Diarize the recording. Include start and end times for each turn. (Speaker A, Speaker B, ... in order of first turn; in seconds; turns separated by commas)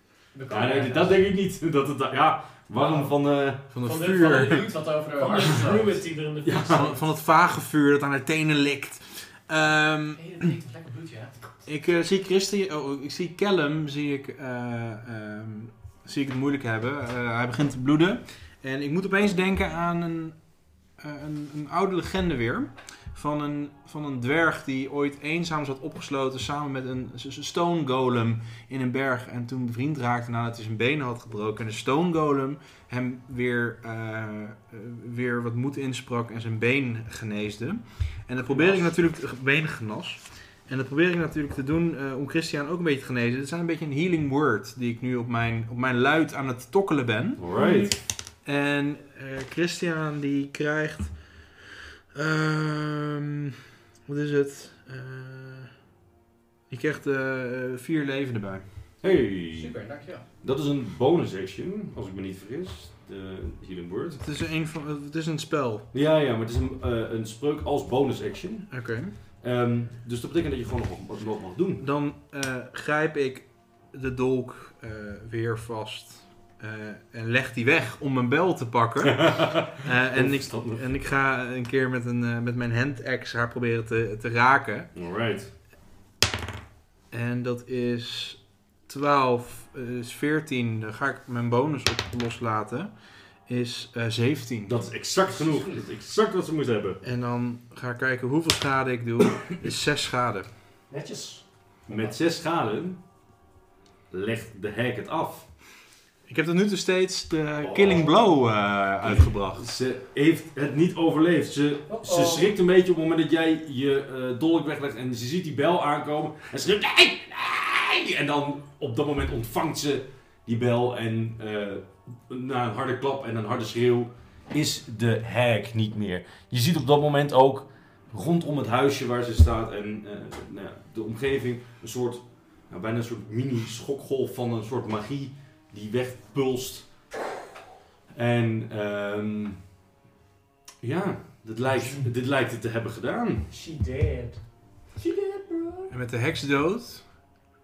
Speaker A: 0.3-1.3, Speaker B: 0.5-4.2, Speaker C: 3.7-4.6, Speaker D: 3.9-7.0, Speaker A: 4.0-6.0, Speaker B: 6.4-6.9, Speaker C: 6.7-10.5, Speaker A: 10.1-11.7, Speaker C: 11.7-47.5, Speaker B: 38.5-38.9, Speaker B: 47.4-48.0, Speaker D: 47.6-47.9, Speaker C: 48.4-51.6, Speaker C: 52.1-53.4, Speaker C: 54.1-55.8, Speaker C: 56.7-58.8, Speaker B: 59.0-64.2, Speaker A: 59.1-60.3, Speaker C: 64.2-65.9, Speaker B: 65.9-71.8, Speaker C: 68.7-69.1, Speaker C: 71.8-84.9, Speaker B: 79.2-80.9, Speaker B: 85.0-85.5, Speaker C: 87.1-94.8, Speaker B: 94.7-97.0, Speaker A: 95.3-95.8, Speaker C: 97.0-100.5, Speaker D: 100.9-101.7, Speaker B: 101.9-103.0, Speaker B: 104.1-105.5, Speaker C: 106.3-109.7, Speaker B: 107.7-108.0, Speaker B: 109.0-137.2, Speaker D: 111.9-112.5, Speaker B: 138.1-139.6, Speaker B: 140.8-143.5, Speaker D: 141.8-142.1, Speaker D: 143.5-145.9, Speaker C: 145.9-147.3